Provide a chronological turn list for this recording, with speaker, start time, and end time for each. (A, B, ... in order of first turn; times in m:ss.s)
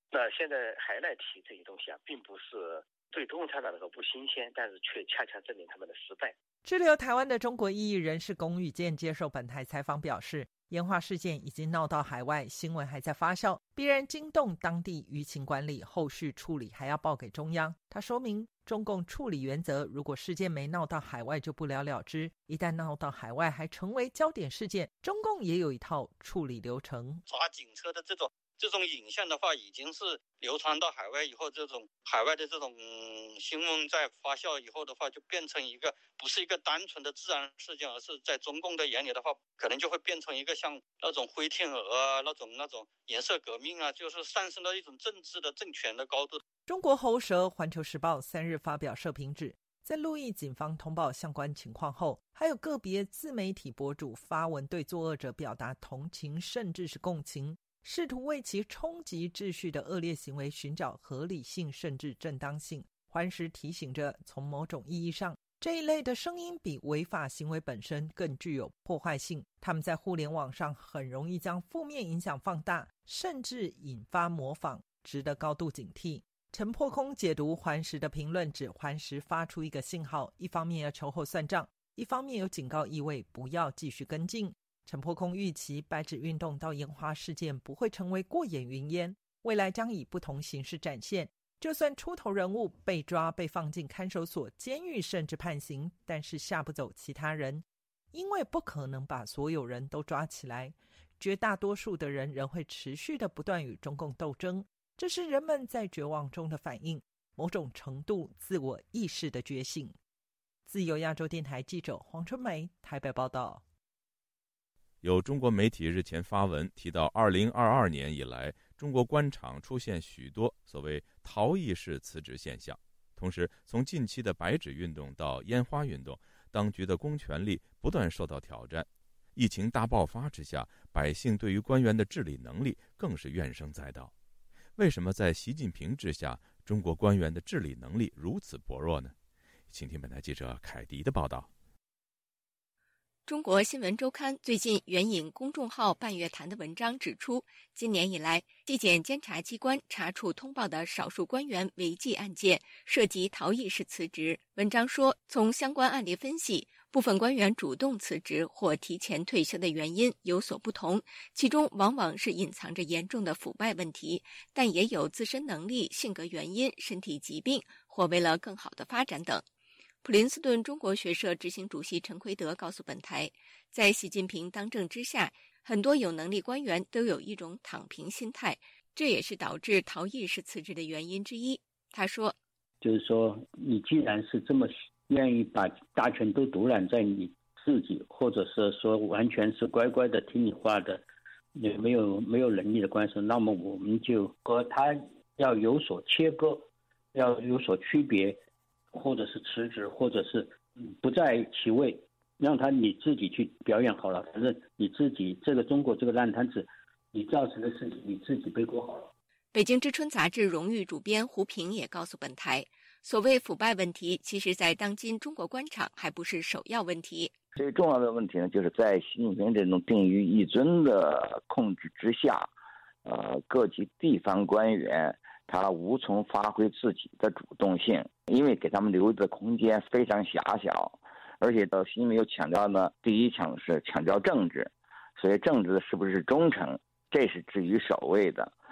0:00.6-0:01.1 A
0:01.7-0:06.3 A
0:06.6-0:27.2 B
0:27.3-0:46.4 C
0:46.7-1:50.0 B
1:50.7-1:53.6 B
1:55.0-2:14.1 D
2:14.8-2:19.1 D
2:19.7-2:21.5 D
2:23.3-2:49.4 E
2:50.0-3:02.4 E
3:02.8-3:11.0 F
3:11.6-3:18.4 F
3:18.9-3:29.1 F
3:29.5-3:37.3 E
3:37.6-3:42.5 G
3:43.1-3:58.5 G